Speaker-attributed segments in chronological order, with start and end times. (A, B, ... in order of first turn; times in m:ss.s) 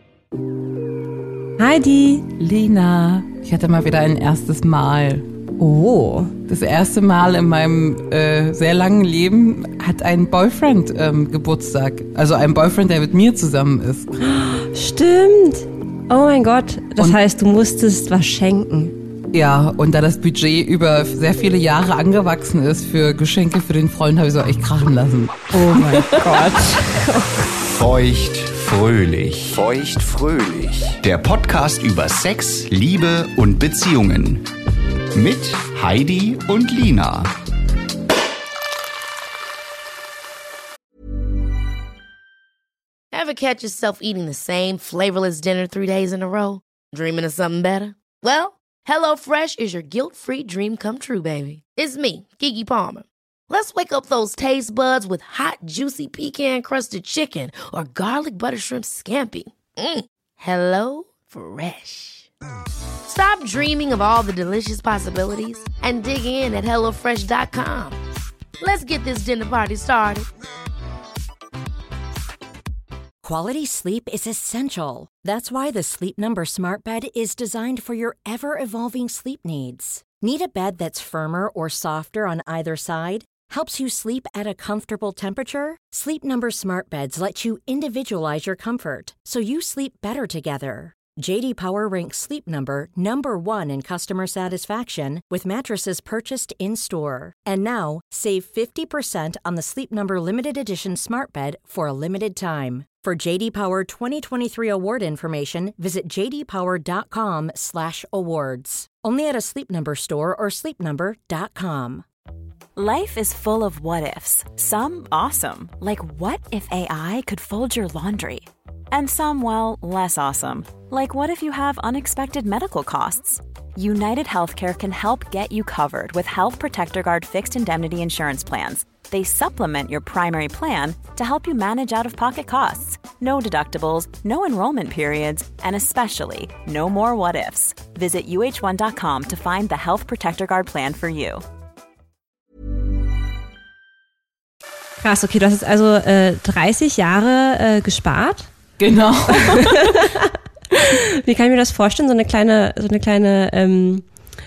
0:01.6-0:02.3 A
0:02.4-0:05.3 B
0:05.6-0:06.3 A
0:06.5-0:14.1 B
0:14.2-0:19.0 A
0:19.3-0:26.6 B
0:25.5-0:27.4 A
0:27.6-0:34.4 C
0:35.1-0:37.3 C
0:43.1-1:02.3 D
1:03.1-1:08.0 D
1:08.6-1:10.3 D
1:13.2-1:52.0 E
1:52.8-2:21.4 F
2:25.0-2:28.5 A
2:28.8-2:30.1 B
2:29.3-2:34.0 A